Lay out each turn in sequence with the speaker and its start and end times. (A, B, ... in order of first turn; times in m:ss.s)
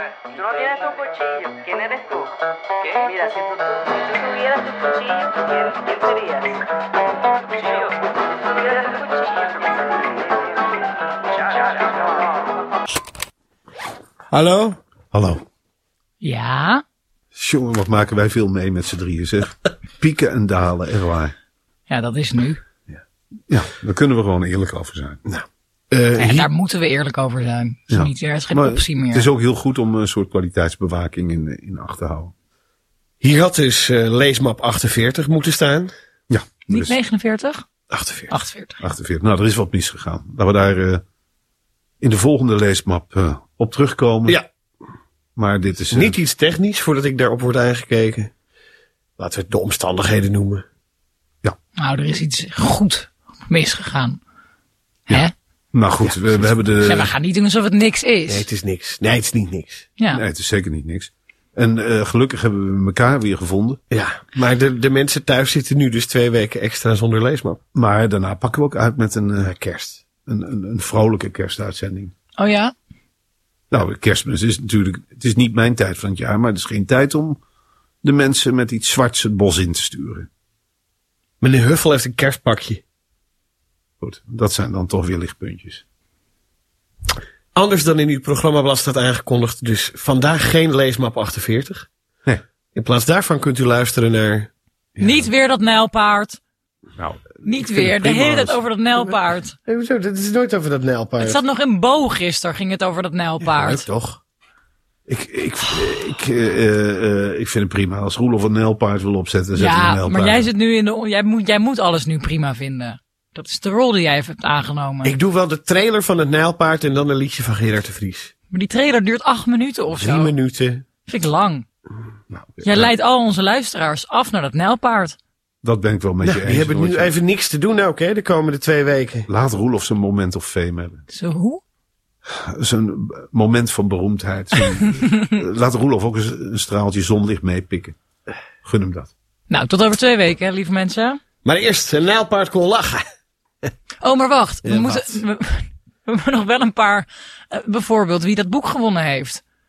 0:00.3-0:02.3 A
0:02.8-0:06.6 A
0:07.6-0:07.9 A
0:08.5-0:10.2 A
0:11.4-0:12.2 A
0:14.3-0:14.8 B
0:15.1-0:15.4 C
0:16.2-0:16.8 D
0:17.3-0:21.3 C
0:21.9-0:22.6 D
0:23.5-0:25.2 C
0:25.2-0:26.5 B
0:26.2-0:29.3 D
0:27.9-0:32.3 C
0:33.2-0:35.9 B
0:36.3-0:36.9 C
0:36.7-0:37.6 D
0:37.9-0:38.4 B
0:38.3-0:38.8 D
0:38.8-0:41.0 C
0:42.0-0:44.4 C
0:45.4-0:46.2 C
0:45.9-0:48.3 B
0:49.2-0:50.6 B
0:51.8-0:54.2 D
0:55.1-0:57.1 C
0:56.0-0:56.5 B
0:56.8-0:58.5 D
0:58.3-0:59.8 B
1:00.0-1:00.2 D
1:00.1-1:03.8 C
1:03.9-1:07.6 B
1:07.7-1:09.5 C
1:09.4-1:10.0 B
1:10.2-1:12.1 C
1:12.4-1:12.7 D
1:13.7-1:17.4 C
1:18.0-1:20.3 C
1:21.4-1:22.8 B
1:24.0-1:25.8 C
1:27.5-1:31.9 B
1:32.7-1:34.5 B
1:35.0-1:35.3 C
1:35.0-1:36.4 D
1:37.0-1:38.6 C
1:37.4-1:39.6 D
1:38.9-1:41.4 B
1:41.2-1:43.9 D
1:43.4-1:44.2 B
1:45.1-1:50.5 C
1:49.5-1:55.2 D
1:55.0-1:58.3 B
1:58.5-2:00.4 D
1:59.9-2:00.8 B
2:01.0-2:01.6 D
2:02.3-2:02.9 C
2:02.6-2:05.2 D
2:05.6-2:07.2 C
2:06.2-2:09.3 B
2:09.3-2:11.0 C
2:11.1-2:11.6 D
2:12.4-2:18.0 C
2:18.6-2:19.1 C
2:19.5-2:21.2 D
2:21.4-2:23.0 B
2:24.0-2:29.4 D
2:24.6-2:25.1 B